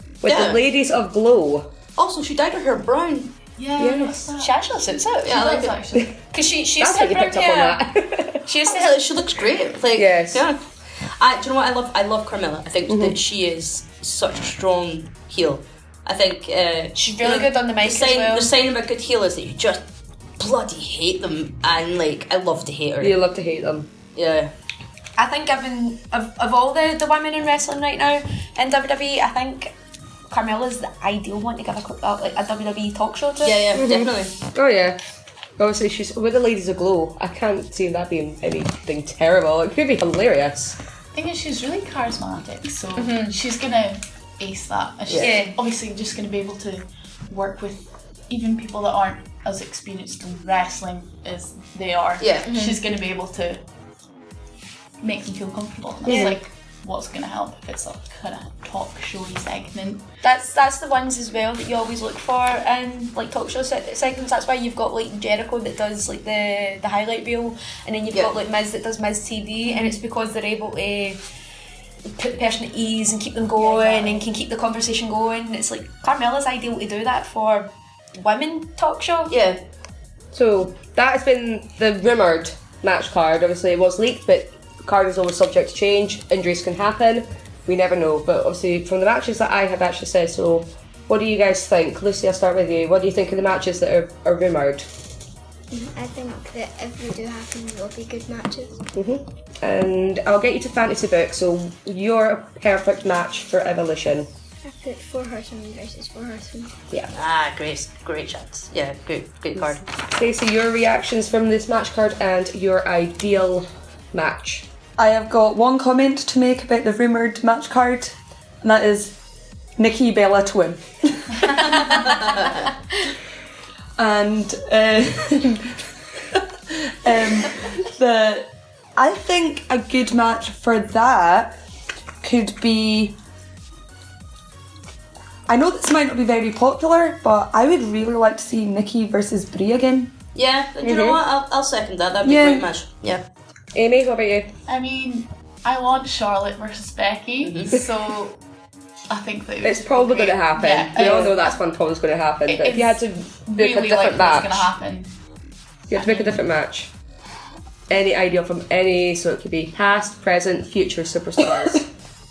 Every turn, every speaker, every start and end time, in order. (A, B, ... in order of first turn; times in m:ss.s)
0:00.2-0:01.7 A
0:00.2-0:00.6 B
0:02.0-0:03.3 B
0:03.6-0:06.1 C
0:03.8-0:04.3 A
0:04.4-0:05.6 D
0:05.2-0:05.8 B
0:06.3-0:07.8 D
0:06.8-0:08.4 A
0:08.4-0:09.0 D
0:08.6-0:19.8 B
0:09.9-0:10.5 A
0:12.9-0:13.2 A
0:17.0-0:18.5 D
0:20.4-0:23.2 B
0:23.0-0:23.9 A
0:24.2-0:24.5 B
0:25.2-0:29.7 D
0:30.3-0:33.6 D
0:33.4-0:34.4 B
0:33.7-0:35.0 A
0:35.6-0:40.8 A
0:41.1-0:53.6 C
0:43.0-0:43.3 D
0:45.1-0:45.4 B
0:45.2-0:45.6 D
0:52.2-0:52.5 B
0:52.4-0:52.8 D
0:55.0-1:00.0 C
0:56.1-0:56.4 A
1:00.2-1:11.2 D
1:12.1-1:19.3 D
1:13.6-1:14.2 C
1:19.3-1:19.6 B
1:20.3-1:34.9 A
1:35.7-1:38.8 E
1:38.9-1:44.3 A
1:44.6-1:46.8 E
1:47.1-1:49.8 B
1:50.1-1:54.7 A
1:55.0-1:59.1 F
1:59.8-2:02.2 F
2:04.0-2:05.6 F
2:07.0-2:11.6 F
2:12.2-2:13.2 F
2:15.5-2:20.2 F
2:20.3-2:23.2 B
2:20.8-2:21.2 A
2:22.2-2:22.7 F
2:23.7-2:24.5 A
2:24.7-2:28.4 C
2:27.4-2:27.8 B
2:29.1-2:31.6 C
2:29.6-2:34.7 A
2:32.5-2:35.1 C
2:35.9-2:36.9 A
2:35.9-2:36.4 C
2:37.9-2:41.8 A